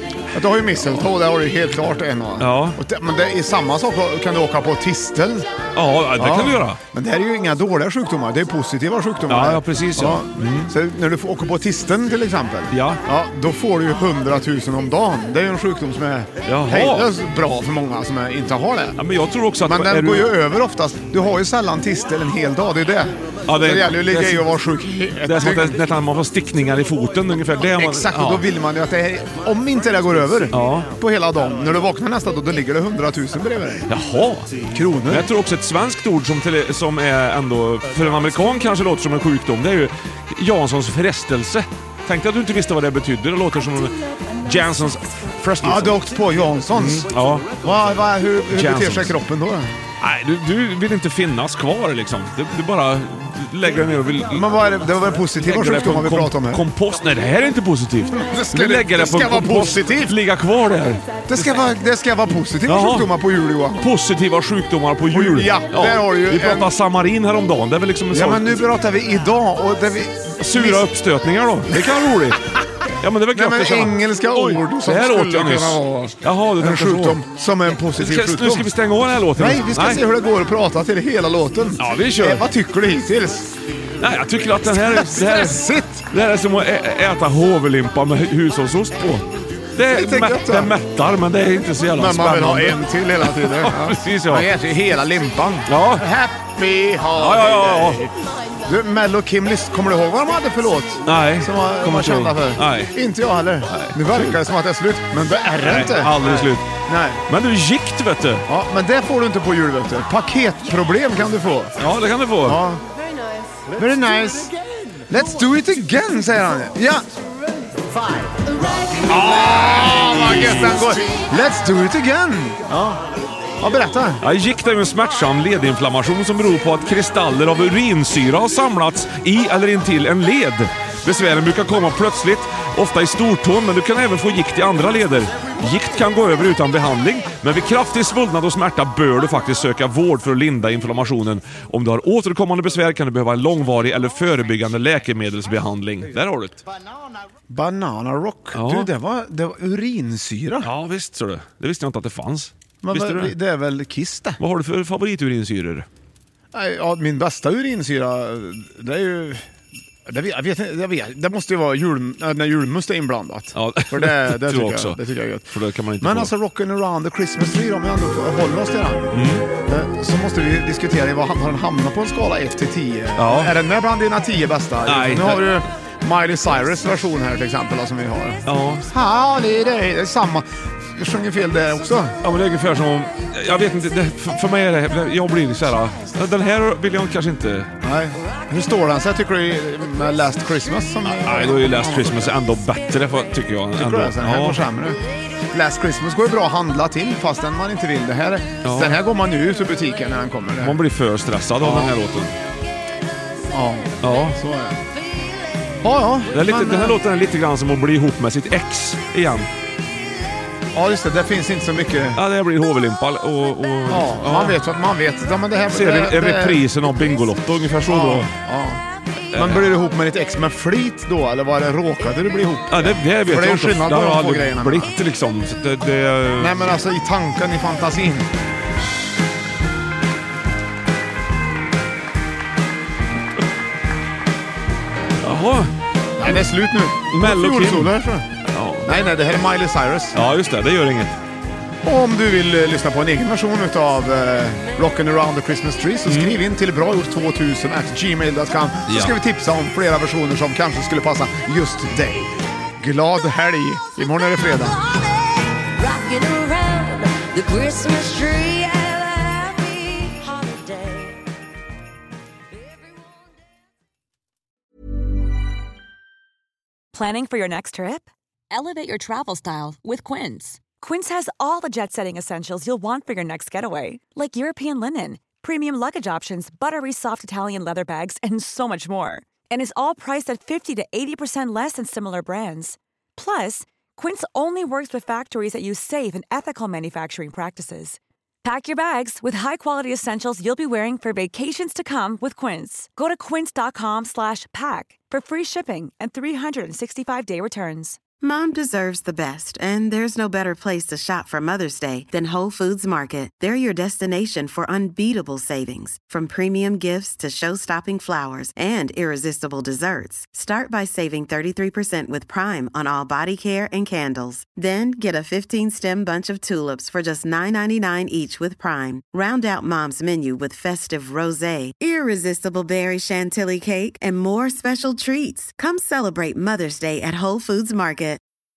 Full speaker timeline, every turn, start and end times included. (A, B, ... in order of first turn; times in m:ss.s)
0:00.3-0:05.5 A
0:02.4-0:02.8 B
0:05.8-0:06.8 B
0:06.2-0:19.0 A
0:09.3-0:10.7 B
0:12.7-0:13.0 B
0:16.5-0:17.1 B
0:19.0-0:20.3 B
0:19.6-0:25.8 A
0:23.5-0:24.5 B
0:25.2-0:28.5 B
0:27.8-0:33.9 A
0:30.5-0:30.9 B
0:33.9-0:34.5 B
0:34.7-0:35.3 A
0:35.1-0:46.0 B
0:45.6-0:49.7 A
0:46.8-0:47.5 B
0:48.5-0:49.2 B
0:50.0-0:54.6 B
0:54.3-0:56.7 A
0:55.4-1:01.6 B
0:58.1-1:00.2 A
1:01.3-1:03.9 A
1:02.7-1:03.1 B
1:03.8-1:08.6 B
1:05.1-1:06.7 A
1:08.1-1:10.9 A
1:10.4-1:12.4 B
1:12.3-1:12.6 A
1:13.0-1:17.2 B
1:13.3-1:18.7 A
1:18.0-1:20.0 B
1:19.4-1:23.5 A
1:21.8-1:22.4 B
1:24.0-1:34.5 B
1:24.6-1:26.0 A
1:29.9-1:30.8 A
1:32.0-1:38.1 A
1:35.7-1:36.1 B
1:37.1-1:38.1 B
1:38.6-1:47.2 A
1:41.0-1:42.9 B
1:43.7-1:44.4 B
1:45.6-1:46.7 B
1:47.3-1:48.4 B
1:48.5-1:51.8 A
1:51.8-1:52.6 B
1:52.4-1:52.8 A
1:53.8-1:54.5 A
1:55.1-1:57.0 A
1:59.0-2:03.0 A
2:00.1-2:00.9 B
2:03.6-2:04.2 A
2:04.2-2:26.6 B
2:27.5-2:30.7 A
2:28.5-2:28.9 B
2:30.6-2:33.4 B
2:32.8-2:34.4 A
2:34.4-2:35.9 B
2:36.5-2:39.4 A
2:40.1-2:45.5 A
2:43.5-2:46.3 B
2:46.0-3:02.2 A
2:49.1-2:49.5 B
2:53.2-2:53.6 B
2:54.8-2:55.6 B
2:58.5-2:58.9 B
3:02.2-3:07.7 B
3:07.8-3:12.3 A
3:11.2-3:14.7 B
3:13.8-3:15.0 A
3:15.5-3:20.8 A
3:18.6-3:19.0 B
3:20.6-3:22.4 B
3:21.6-3:21.9 A
3:23.5-3:24.8 A
3:24.0-3:24.4 B
3:25.8-3:27.0 A
3:26.3-3:29.5 B
3:30.7-3:32.2 A
3:32.2-3:34.6 B
3:33.9-3:36.6 A
3:35.7-3:38.3 B
3:37.9-3:38.8 A
3:39.3-3:39.7 B
3:39.4-3:44.9 A
3:42.7-3:46.6 B
3:46.4-3:48.3 A
3:55.2-3:55.7 B
3:56.2-3:58.3 A
3:57.1-3:57.9 B
3:58.5-3:58.9 B
3:58.8-4:00.2 A
4:00.2-4:01.2 B
4:01.8-4:14.8 A
4:06.1-4:06.4 B
4:08.9-4:09.2 B
4:15.8-4:21.1 C
4:26.9-4:58.0 D
4:58.2-5:28.2 E